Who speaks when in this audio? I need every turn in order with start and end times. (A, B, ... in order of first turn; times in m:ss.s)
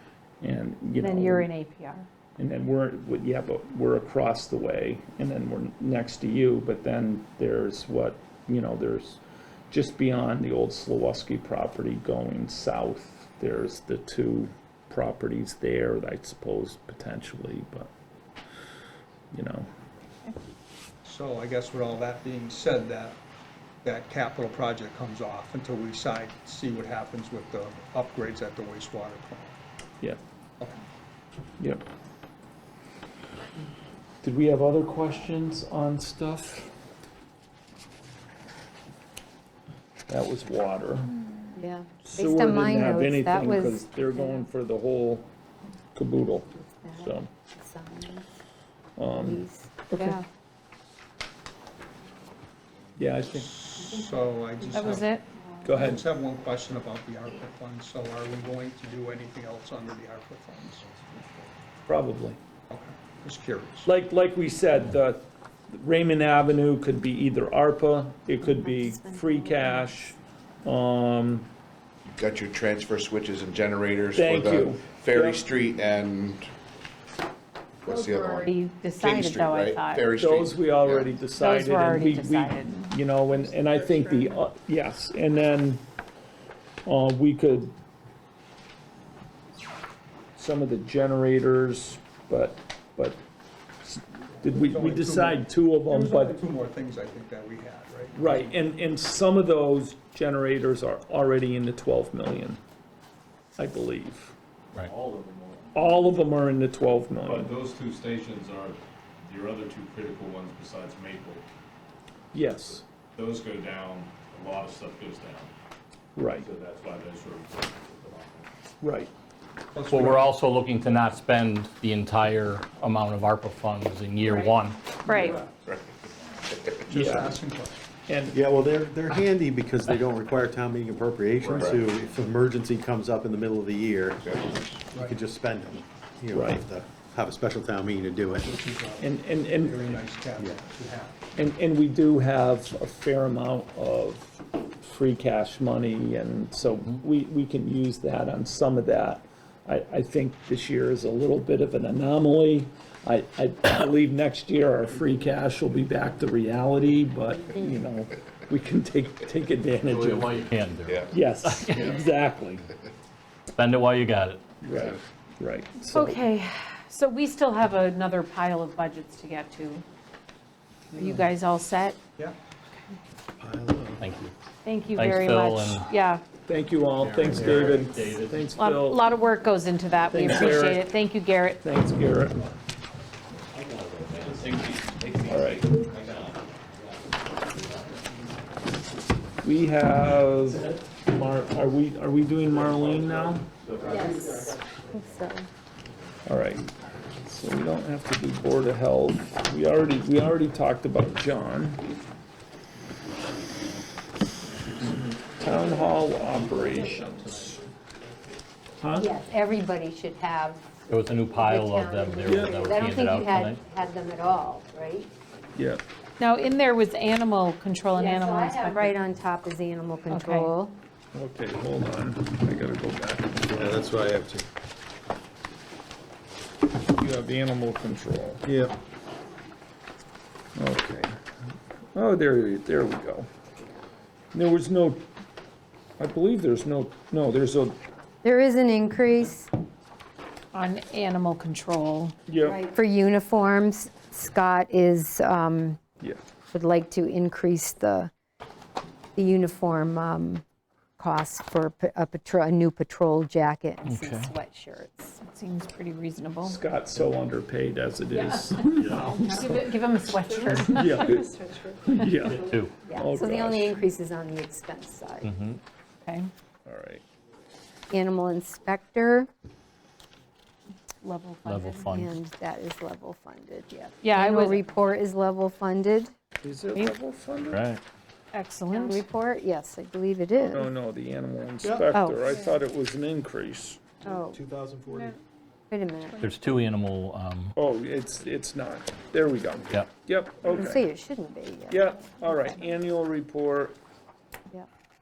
0:00.4-0:01.5 A
0:01.0-0:02.1 B
0:02.4-0:17.9 A
0:19.3-0:19.7 A
0:21.0-0:23.2 C
0:23.8-0:29.5 C
0:31.6-0:31.8 A
0:34.2-0:36.7 A
0:40.1-0:41.1 A
0:41.6-0:44.4 D
0:42.0-0:45.2 A
0:45.9-0:47.3 A
0:46.6-0:48.3 D
0:49.0-0:50.1 A
0:49.1-0:50.2 D
0:53.0-0:53.5 A
0:53.2-0:55.2 C
0:54.7-0:55.2 B
0:55.6-0:56.0 A
0:55.7-1:00.9 C
1:01.9-1:02.4 A
1:02.7-1:03.9 C
1:03.8-1:11.5 A
1:08.4-1:09.9 D
1:12.0-1:16.5 E
1:14.1-1:15.5 A
1:17.8-1:21.2 E
1:17.9-1:18.5 D
1:18.4-1:20.1 B
1:20.2-1:25.8 A
1:21.3-1:22.9 B
1:26.8-1:27.7 A
1:30.4-1:33.2 A
1:33.8-1:36.4 A
1:34.4-1:38.5 C
1:38.2-1:42.6 A
1:43.6-1:44.3 A
1:44.7-1:45.7 F
1:45.7-1:47.5 A
1:47.2-1:51.4 F
1:52.3-1:52.8 A
1:53.1-1:55.5 F
1:56.2-1:56.5 A
1:56.3-1:58.5 F
1:58.8-1:59.1 A
1:59.7-2:00.3 C
1:59.9-2:04.8 G
2:04.2-2:04.5 B
2:05.0-2:05.4 B
2:05.1-2:05.4 C
2:05.5-2:05.9 E
2:06.5-2:06.8 E
2:06.9-2:07.8 C
2:06.9-2:07.4 A
2:08.1-2:08.4 A
2:08.3-2:14.4 H
2:11.4-2:11.8 E
2:14.2-2:14.7 E
2:14.9-2:15.2 C
2:14.9-2:18.5 H
2:16.3-2:16.6 A
2:18.4-2:21.2 C
2:19.0-2:20.0 A
2:21.3-2:40.4 A
2:39.8-2:41.9 G
2:40.9-2:41.1 E
2:41.1-2:42.6 A
2:41.7-2:42.0 E
2:43.5-2:44.4 G
2:44.6-2:46.2 A
2:45.9-2:49.8 B
2:50.9-2:52.0 B
2:53.4-2:54.0 H
2:54.0-2:54.3 G
2:54.6-2:56.2 B
2:54.9-2:55.9 G
2:56.5-2:59.0 A
2:57.0-2:57.9 H
2:57.8-2:58.4 G
2:58.6-3:01.6 B
3:00.1-3:00.8 A
3:01.6-3:02.4 A
3:04.2-3:04.5 G
3:04.9-3:05.1 F
3:05.2-3:05.7 A
3:09.4-3:13.4 A
3:13.8-3:14.3 H
3:13.8-3:14.3 D
3:14.9-3:15.5 D
3:16.2-3:21.8 A
3:25.4-3:27.6 A
3:28.8-3:29.1 A
3:28.9-3:30.6 D
3:30.9-3:33.6 G
3:31.3-3:35.1 D
3:32.3-3:32.6 A
3:35.5-3:35.8 A
3:36.2-3:39.0 B
3:37.9-3:40.8 D
3:40.1-3:40.5 B
3:41.1-3:43.6 A
3:43.5-3:44.5 H
3:46.9-3:48.4 A
3:48.4-3:48.7 H
3:50.6-3:51.1 A
3:51.9-3:53.3 A
3:54.3-3:55.1 A
3:56.0-3:57.8 A
3:58.2-3:59.5 D
4:00.5-4:02.1 B
4:02.3-4:02.6 A
4:02.4-4:05.8 D
4:06.5-4:08.1 D
4:09.2-4:10.4 D
4:11.0-4:15.2 D
4:13.8-4:14.3 G
4:15.2-4:16.6 B
4:16.4-4:19.7 A
4:18.1-4:22.0 B
4:18.8-4:19.2 G
4:20.5-4:21.3 A
4:21.8-4:23.8 A
4:22.2-4:22.7 G
4:22.8-4:25.3 D
4:25.2-4:25.6 G
4:26.0-4:26.3 B
4:26.6-4:27.0 A
4:27.9-4:29.3 D
4:31.0-4:31.8 B
4:31.4-4:32.1 G
4:31.8-4:36.1 D
4:34.0-4:34.6 B
4:36.4-4:37.6 A
4:37.4-4:37.8 G
4:38.3-4:39.0 B
4:38.7-4:40.6 D
4:40.5-4:43.8 A
4:41.6-4:41.9 H
4:41.9-4:42.2 B
4:44.0-4:44.4 B
4:44.0-4:45.2 H
4:45.7-4:46.3 D
4:46.2-4:47.5 G
4:47.6-4:50.8 A
4:50.5-4:52.6 D
4:51.7-4:53.8 A